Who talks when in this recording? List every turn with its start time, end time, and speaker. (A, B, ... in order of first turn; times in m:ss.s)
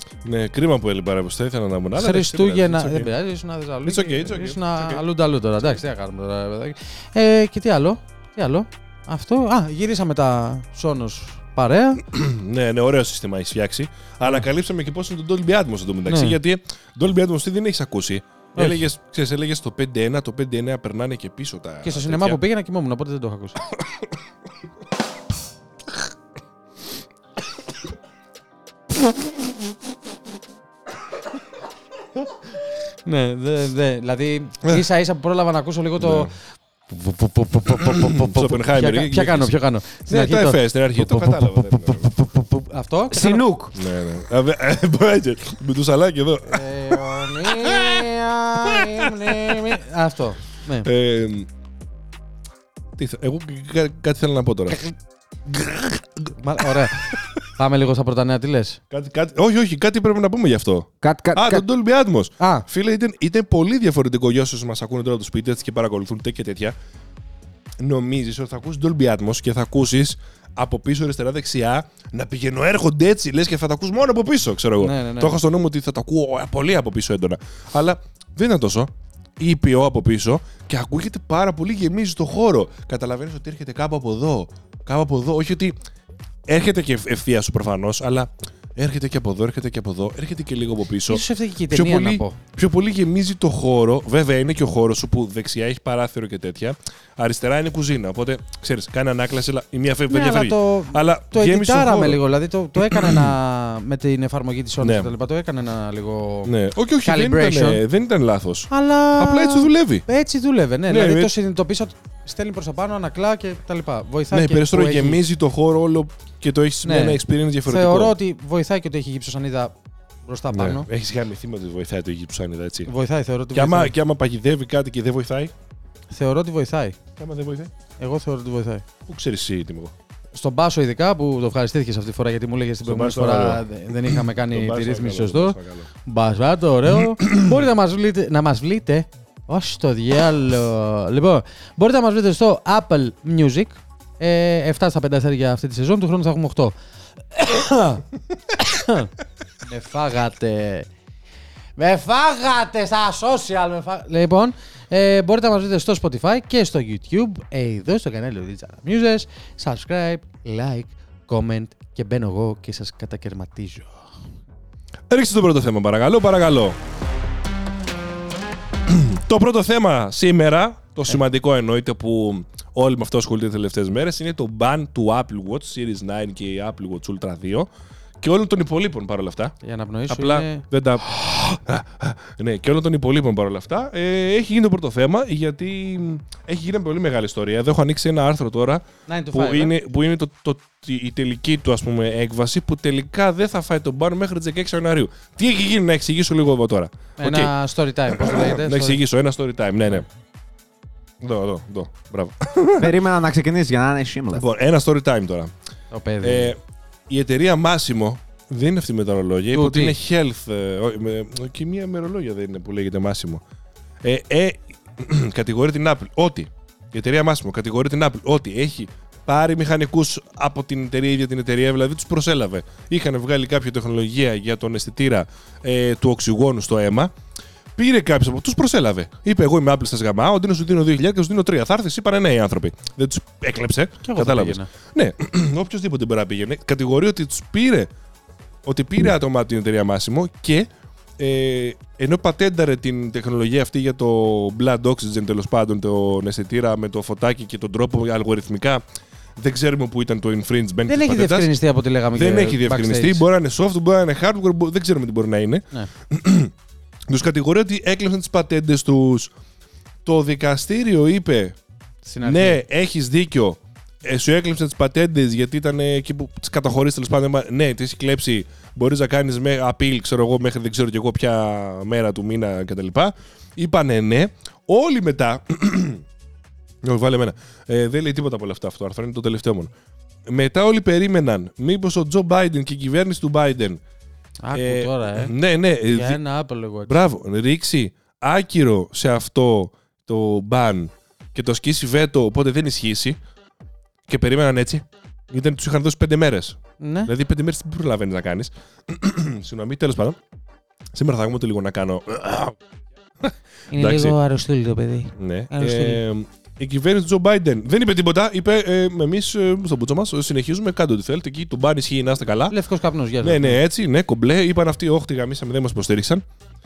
0:00.2-0:03.1 A
0:02.0-0:12.0 B
0:03.8-0:05.0 A
0:12.1-0:22.4 A
0:16.1-0:16.4 B
0:18.6-0:18.8 B
0:21.8-0:23.6 B
0:33.0-0:43.4 B
0:36.0-0:36.3 A
0:37.8-0:42.1 A
0:43.1-0:43.7 C
0:43.7-0:49.7 A
0:46.4-0:50.9 B
0:50.8-0:51.5 A
0:53.0-0:54.8 A
0:55.4-0:56.3 A
0:56.4-0:58.8 B
0:58.9-1:06.7 A
1:01.0-1:01.6 C
1:02.4-1:02.6 B
1:07.8-1:25.7 A
1:14.8-1:15.4 B
1:26.5-1:42.2 A
1:31.1-1:32.4 B
1:40.1-1:46.5 B
1:42.8-1:43.3 A
1:44.8-1:45.1 A
1:46.4-1:50.0 A
1:47.0-1:47.8 B
1:48.7-1:55.2 B
1:50.9-1:51.3 A
1:54.3-1:58.1 A
1:56.8-1:59.7 B
2:00.2-2:00.9 B
2:00.5-2:02.9 A
2:02.9-2:03.9 B
2:03.5-2:05.5 A
2:06.1-2:07.0 B
2:07.2-2:07.7 A
2:08.0-2:08.8 B
2:09.1-2:09.9 A
2:10.3-2:26.7 B
2:12.8-2:15.9 A
2:17.2-2:17.5 A
2:27.3-2:29.1 B
2:29.6-2:30.9 B
2:31.8-2:44.0 B
2:45.1-2:46.8 A
2:48.9-2:57.7 A
2:58.2-2:59.5 A
2:59.6-3:00.6 B
3:00.1-3:17.5 A
3:09.1-3:09.7 B
3:17.2-3:19.0 B
3:18.1-3:20.0 A
3:21.2-3:22.9 A
3:22.8-3:24.4 C
3:24.3-3:25.5 A
3:25.9-3:26.5 B
3:26.2-3:26.6 A
3:27.1-3:33.4 A
3:29.5-3:29.9 B
3:34.0-3:47.1 A
3:47.8-3:57.9 A
3:54.0-3:54.7 B
3:58.6-4:08.8 A
4:09.4-4:11.5 A
4:10.9-4:13.2 B
4:12.1-4:16.5 A
4:17.1-4:19.3 A
4:20.0-4:21.6 A
4:22.0-4:22.6 B
4:22.2-4:36.0 A
4:36.8-4:39.7 A
4:40.3-4:43.8 A
4:44.4-4:45.3 B
4:44.5-4:46.2 A
4:45.9-4:47.0 B
4:46.8-4:53.2 A
4:54.1-5:00.2 A
4:56.8-4:57.1 B
5:00.9-5:02.5 A
5:03.2-5:04.1 A
5:03.7-5:06.0 B
5:05.2-5:12.5 A
5:12.5-5:13.6 B
5:13.2-5:16.2 A